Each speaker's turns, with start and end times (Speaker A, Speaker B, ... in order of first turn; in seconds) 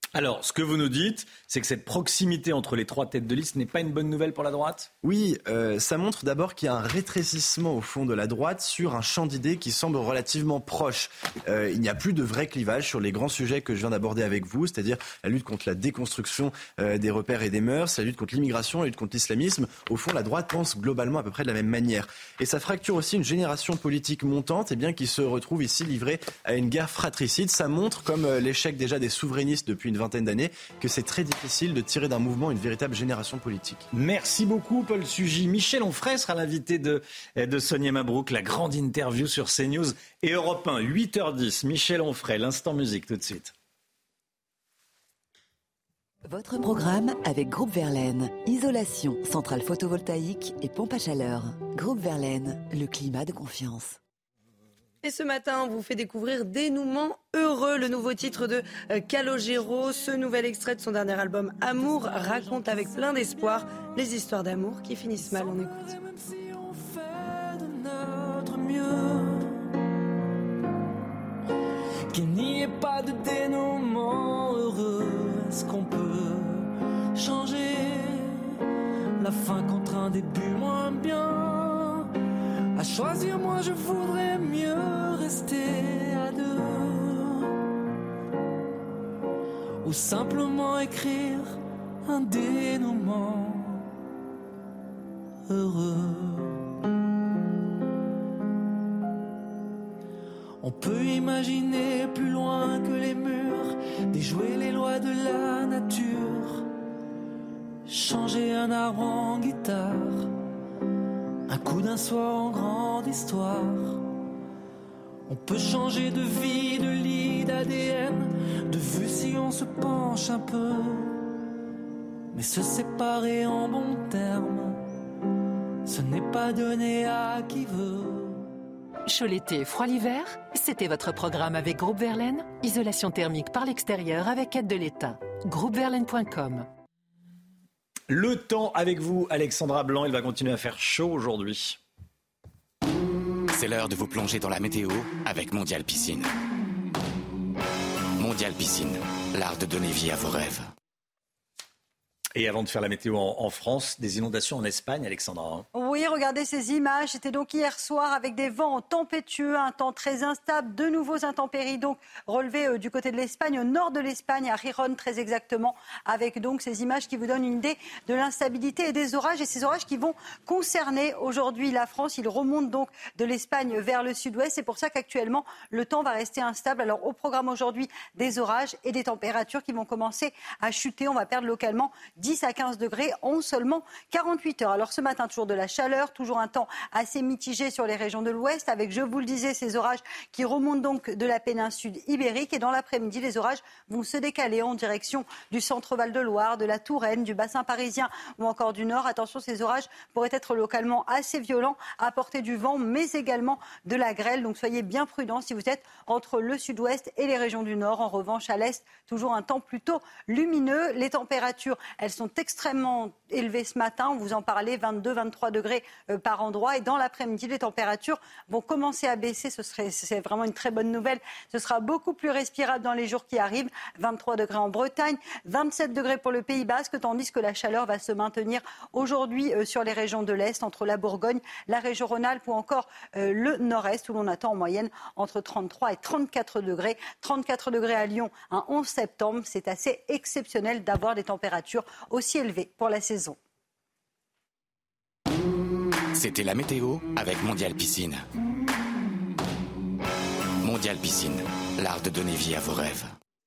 Speaker A: 0.1-4.9, 33.9-43.5, 138.1-141.8, 152.3-155.7
Speaker B: 5.0-33.9
Speaker C: 46.2-54.0
Speaker D: 55.0-65.8
Speaker E: 65.2-69.7, 72.1-78.6, 79.2-82.1, 82.8-87.5, 89.8-93.9, 95.5-96.6, 100.6-106.7, 107.9-110.3, 111.5-114.0, 115.3-121.2, 122.3-124.9, 125.8-128.5
Speaker F: 129.1-136.7
Speaker G: 143.5-146.3, 148.2-150.7, 246.2-248.3, 250.6-253.1
Speaker H: 155.8-243.4